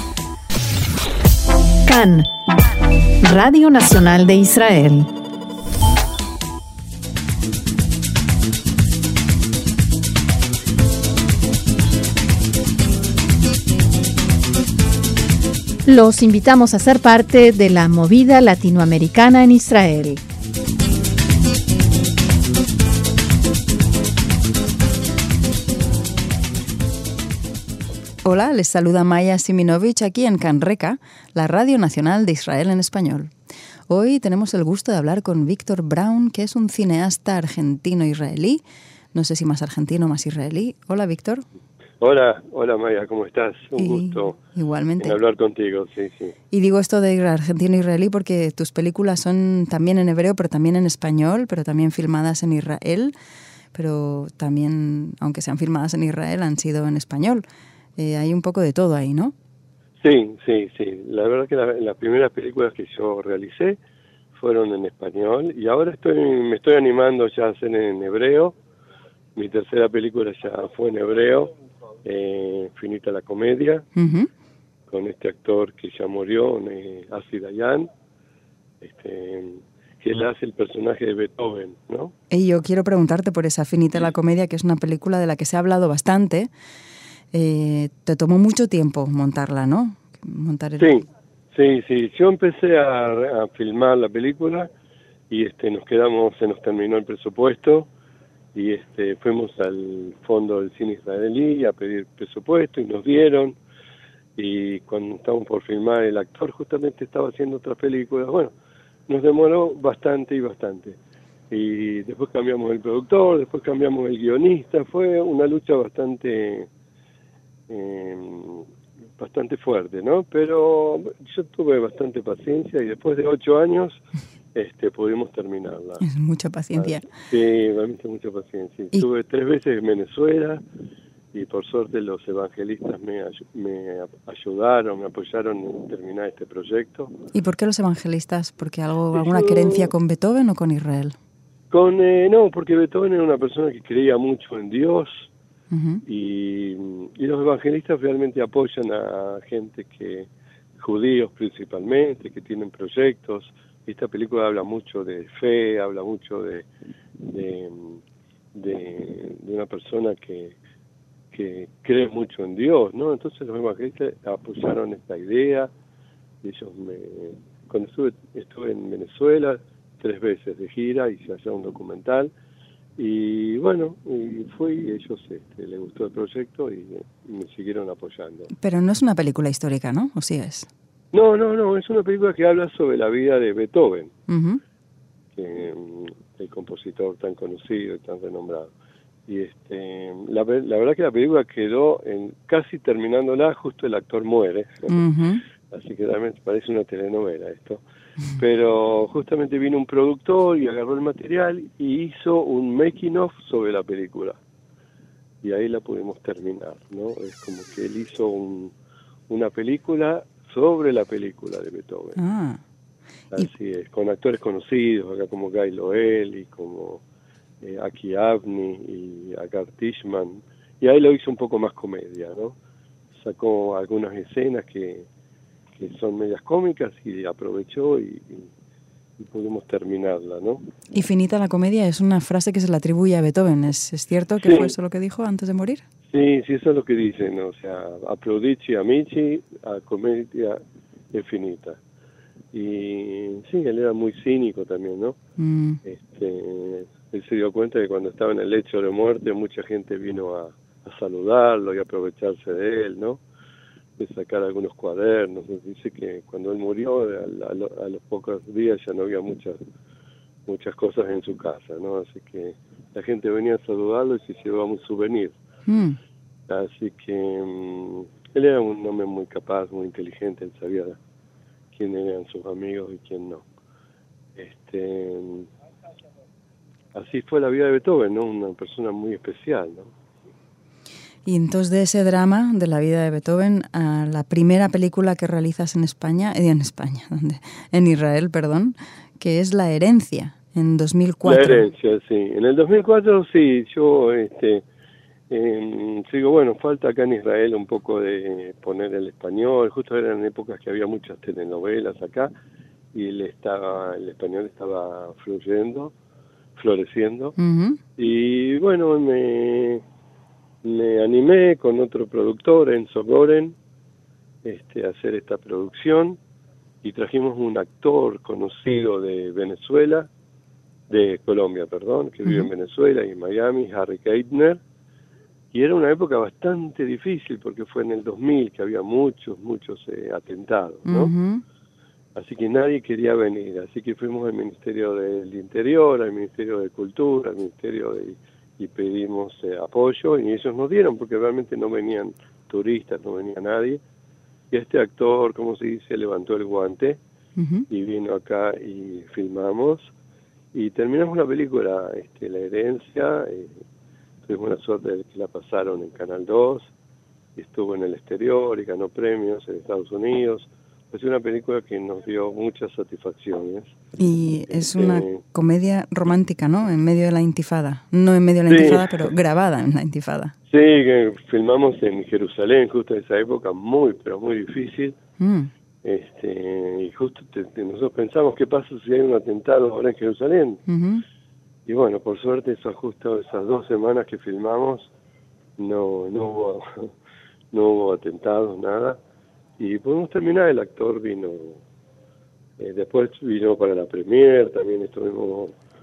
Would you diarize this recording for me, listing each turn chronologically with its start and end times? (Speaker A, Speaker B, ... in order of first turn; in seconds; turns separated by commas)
Speaker A: 1.9-2.3, Speaker A: 3.2-5.1, Speaker A: 15.8-20.2, Speaker B: 28.2-33.3, Speaker B: 33.9-38.6, Speaker B: 39.1-41.4, Speaker C: 42.0-44.4, Speaker B: 43.8-45.2, Speaker C: 45.0-46.3, Speaker B: 46.5-53.1, Speaker B: 53.7-57.4, Speaker B: 58.0-59.3, Speaker C: 60.0-63.8, Speaker C: 64.3-68.5, Speaker C: 69.3-73.8, Speaker B: 74.0-74.3, Speaker C: 74.9-77.9, Speaker C: 78.8-82.1, Speaker B: 82.3-86.5, Speaker B: 87.3-91.0, Speaker C: 90.8-94.7, Speaker C: 95.3-97.9, Speaker C: 98.5-103.6, Speaker C: 104.3-108.5, Speaker C: 109.1-111.0, Speaker C: 111.5-116.7, Speaker C: 117.7-126.0, Speaker B: 126.0-127.1, Speaker C: 126.8-130.6, Speaker C: 131.3-137.1, Speaker B: 137.3-141.1, Speaker C: 139.1-139.9, Speaker C: 141.7-145.3, Speaker B: 145.7-146.0, Speaker C: 146.0-156.7, Speaker C: 157.2-158.0, Speaker C: 158.5-160.6, Speaker C: 161.3-165.7, Speaker C: 166.4-172.3, Speaker C: 173.0-178.5, Speaker B: 178.5-180.7, Speaker C: 181.1-184.1, Speaker B: 184.3-184.6, Speaker C: 185.3-188.7, Speaker C: 189.3-195.0, Speaker B: 194.9-195.4, Speaker C: 195.7-197.8, Speaker C: 198.3-204.4, Speaker C: 205.4-208.7, Speaker C: 209.3-212.2, Speaker B: 212.2-212.6, Speaker C: 213.3-217.0, Speaker C: 217.6-222.6, Speaker C: 223.1-225.1, Speaker C: 225.8-228.5, Speaker C: 229.2-230.7, Speaker B: 230.9-235.8, Speaker C: 234.4-234.8, Speaker C: 236.1-240.6, Speaker C: 241.1-241.8, Speaker C: 242.5-245.2, Speaker B: 245.4-245.8, Speaker C: 245.8-253.2, Speaker C: 254.0-259.6, Speaker C: 260.4-265.4, Speaker B: 265.6-266.0, Speaker C: 266.5-271.0, Speaker C: 271.7-273.4, Speaker C: 274.3-275.5, Speaker C: 276.9-279.9, Speaker B: 281.2-291.7, Speaker C: 291.2-294.6, Speaker C: 295.3-302.3, Speaker C: 302.9-305.9, Speaker C: 306.5-307.4, Speaker B: 307.4-307.8, Speaker C: 307.9-309.8, Speaker C: 310.6-313.6, Speaker C: 314.4-316.2, Speaker C: 316.8-320.1, Speaker C: 320.9-324.6, Speaker B: 322.2-322.5, Speaker C: 325.5-331.1, Speaker B: 330.9-331.4, Speaker C: 332.1-343.8, Speaker C: 344.5-347.0, Speaker B: 347.4-347.7, Speaker C: 347.7-349.9, Speaker C: 350.5-353.6, Speaker C: 354.2-356.7, Speaker C: 357.4-363.8, Speaker B: 364.0-370.3, Speaker C: 364.5-365.2, Speaker C: 368.5-369.1, Speaker C: 370.5-375.0, Speaker B: 375.2-375.5, Speaker C: 375.8-380.6, Speaker B: 380.7-381.0, Speaker C: 381.6-384.9, Speaker C: 385.6-386.9, Speaker C: 387.5-389.0, Speaker C: 389.6-391.6, Speaker C: 392.6-395.6